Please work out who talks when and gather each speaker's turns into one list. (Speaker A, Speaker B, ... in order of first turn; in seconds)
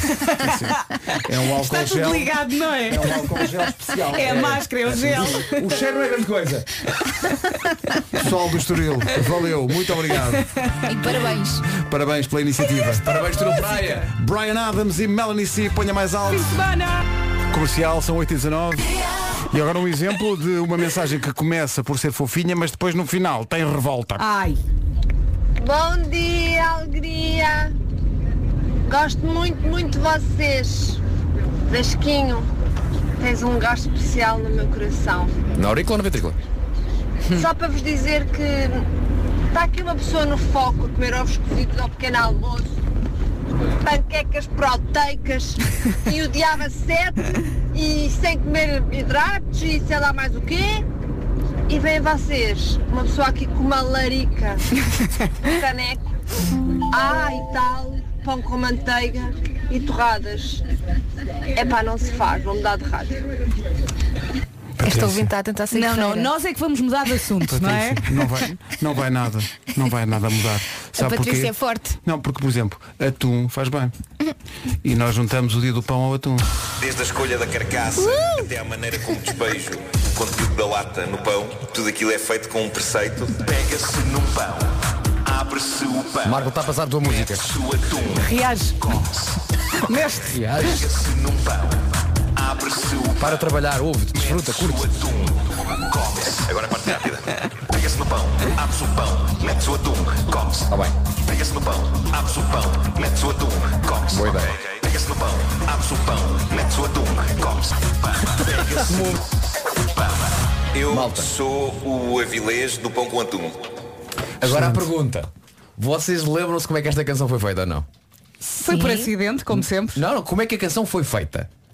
Speaker A: 0.4-4.5, 8.1-10.4, 11.7-13.1, 14.0-16.6, 17.5-18.9, 19.5-24.2, 64.8-65.3, 67.5-73.9, 74.8-76.5, 114.4-114.8
Speaker B: 1.5-3.2, 4.1-5.7, 16.4-17.0, 24.2-24.6, 65.7-68.0, 88.2-88.9, 89.8-90.4, 118.5-120.0
Speaker C: 4.2-6.8, 13.0-14.1, 35.5-36.4, 86.2-87.5, 90.3-90.8, 93.2-95.0, 100.7-100.9, 104.1-104.5, 108.8-109.2, 110.9-111.3, 114.4-117.8, 119.9-121.5
Speaker D: 10.8-11.7, 64.8-66.3, 71.0-72.0, 78.0-78.4, 118.5-119.1
Speaker E: 25.6-27.7, 28.9-31.0, 31.7-32.5, 33.2-35.3, 37.3-38.9, 39.5-42.7, 43.8-50.8, 51.7-54.6, 55.4-56.0, 56.9-60.6, 61.5-63.2
Speaker F: 76.8-84.7, 85.2-86.4, 87.1-88.3, 88.8-89.2, 90.6-93.4, 94.1-109.2, 109.8-113.6